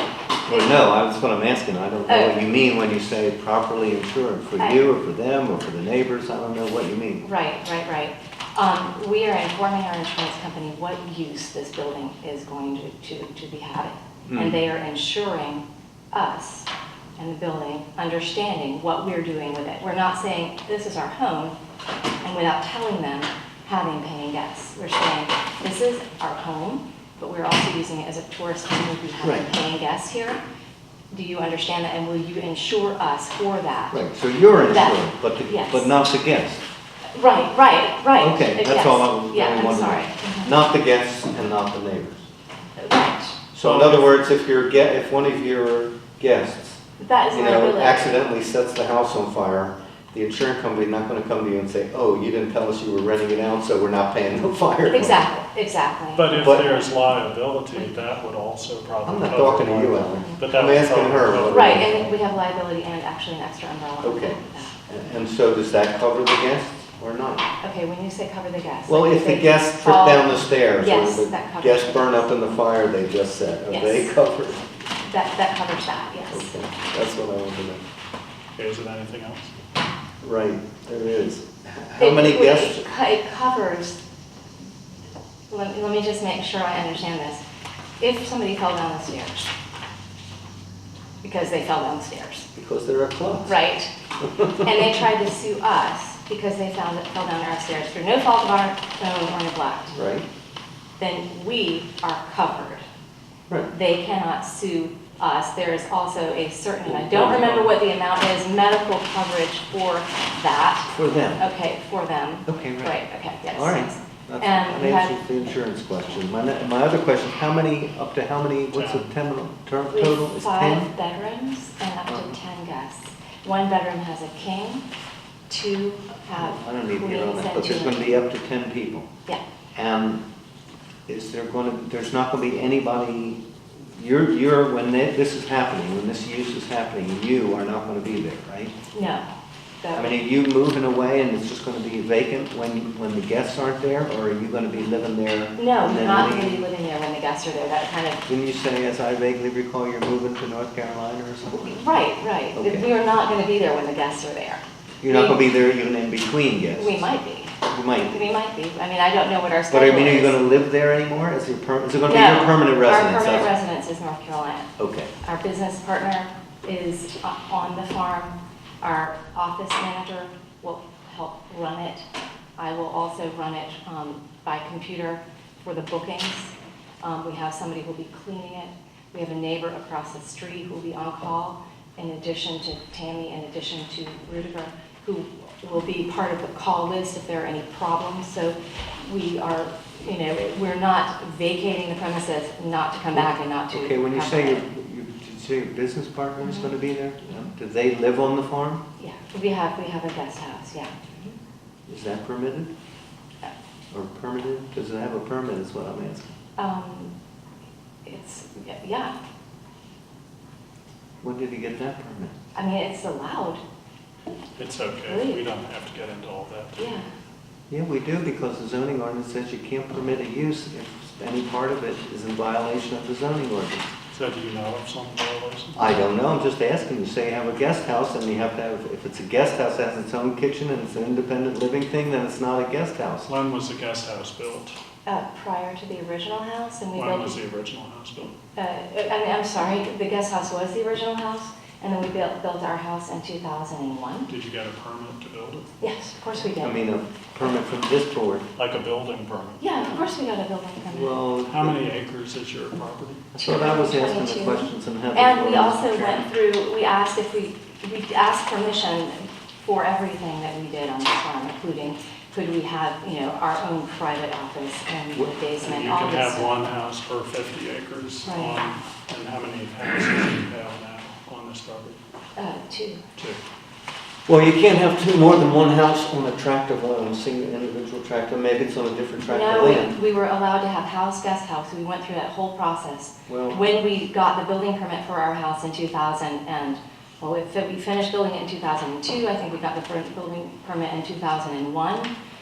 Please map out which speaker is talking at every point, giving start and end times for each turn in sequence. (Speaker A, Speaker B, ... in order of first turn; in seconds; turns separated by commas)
Speaker A: 0.5-7.2, Speaker B: 0.5-0.8, Speaker B: 2.1-2.4, Speaker B: 4.6-4.9, Speaker B: 7.2-21.5, Speaker A: 14.2-14.6, Speaker B: 22.2-30.4, Speaker A: 29.2-29.5, Speaker B: 31.1-34.0, Speaker A: 33.9-36.6, Speaker B: 34.6-35.9, Speaker B: 37.1-40.5, Speaker A: 38.2-42.3, Speaker B: 42.8-43.4, Speaker A: 43.5-55.2, Speaker C: 43.6-44.2, Speaker B: 47.0-48.3, Speaker B: 54.9-56.8, Speaker C: 56.1-62.0, Speaker A: 56.4-56.7, Speaker A: 59.0-62.1, Speaker B: 60.1-60.4, Speaker B: 61.5-64.8, Speaker A: 64.0-67.5, Speaker B: 67.6-72.2, Speaker A: 68.9-74.6, Speaker B: 73.7-74.1, Speaker B: 75.0-76.6, Speaker A: 76.3-77.8, Speaker C: 78.6-79.5, Speaker A: 80.2-82.8, Speaker B: 82.0-84.0, Speaker B: 85.5-87.4, Speaker B: 88.0-89.5, Speaker B: 91.2-92.5, Speaker A: 92.5-93.6, Speaker B: 93.5-93.9, Speaker A: 94.2-95.1, Speaker B: 94.6-99.9, Speaker A: 99.9-100.3, Speaker B: 101.0-102.8, Speaker B: 103.7-115.2, Speaker A: 106.8-107.7, Speaker A: 110.9-111.4, Speaker A: 112.5-112.9, Speaker A: 113.5-120.9, Speaker C: 118.7-119.0, Speaker B: 119.9-124.8, Speaker A: 122.0-122.4, Speaker B: 125.5-128.2, Speaker A: 126.3-129.1, Speaker A: 129.7-130.2, Speaker A: 131.1-138.7, Speaker B: 138.9-139.3, Speaker B: 139.8-140.2, Speaker A: 139.9-146.6, Speaker B: 145.6-148.2, Speaker A: 148.3-151.9, Speaker B: 151.5-155.4, Speaker A: 152.5-152.9, Speaker A: 155.0-157.1, Speaker B: 156.8-160.4, Speaker A: 157.6-158.2, Speaker A: 159.7-163.5, Speaker B: 162.1-164.7, Speaker A: 164.8-165.1, Speaker B: 165.2-172.1, Speaker B: 172.6-194.7, Speaker A: 193.1-198.8, Speaker B: 196.4-196.8, Speaker B: 199.0-201.3, Speaker A: 201.9-202.7, Speaker A: 203.9-206.3, Speaker B: 206.6-207.1, Speaker B: 208.1-209.1, Speaker A: 211.2-212.3, Speaker B: 212.5-213.6, Speaker C: 214.6-217.0, Speaker B: 215.1-215.5, Speaker B: 216.8-217.1, Speaker A: 217.7-223.9, Speaker C: 224.1-225.8, Speaker A: 225.8-233.3, Speaker C: 233.2-234.8, Speaker B: 235.1-237.4, Speaker C: 236.9-238.3, Speaker B: 238.6-244.3, Speaker C: 244.3-245.7, Speaker B: 245.8-246.8, Speaker A: 246.6-248.4, Speaker C: 248.6-249.7, Speaker B: 249.6-251.2, Speaker A: 250.9-251.8, Speaker C: 251.4-253.4, Speaker A: 253.3-256.3, Speaker B: 253.4-266.5, Speaker C: 265.6-272.0, Speaker B: 268.2-268.6, Speaker B: 272.4-273.0, Speaker A: 274.3-280.0, Speaker B: 279.2-292.1, Speaker A: 283.3-283.6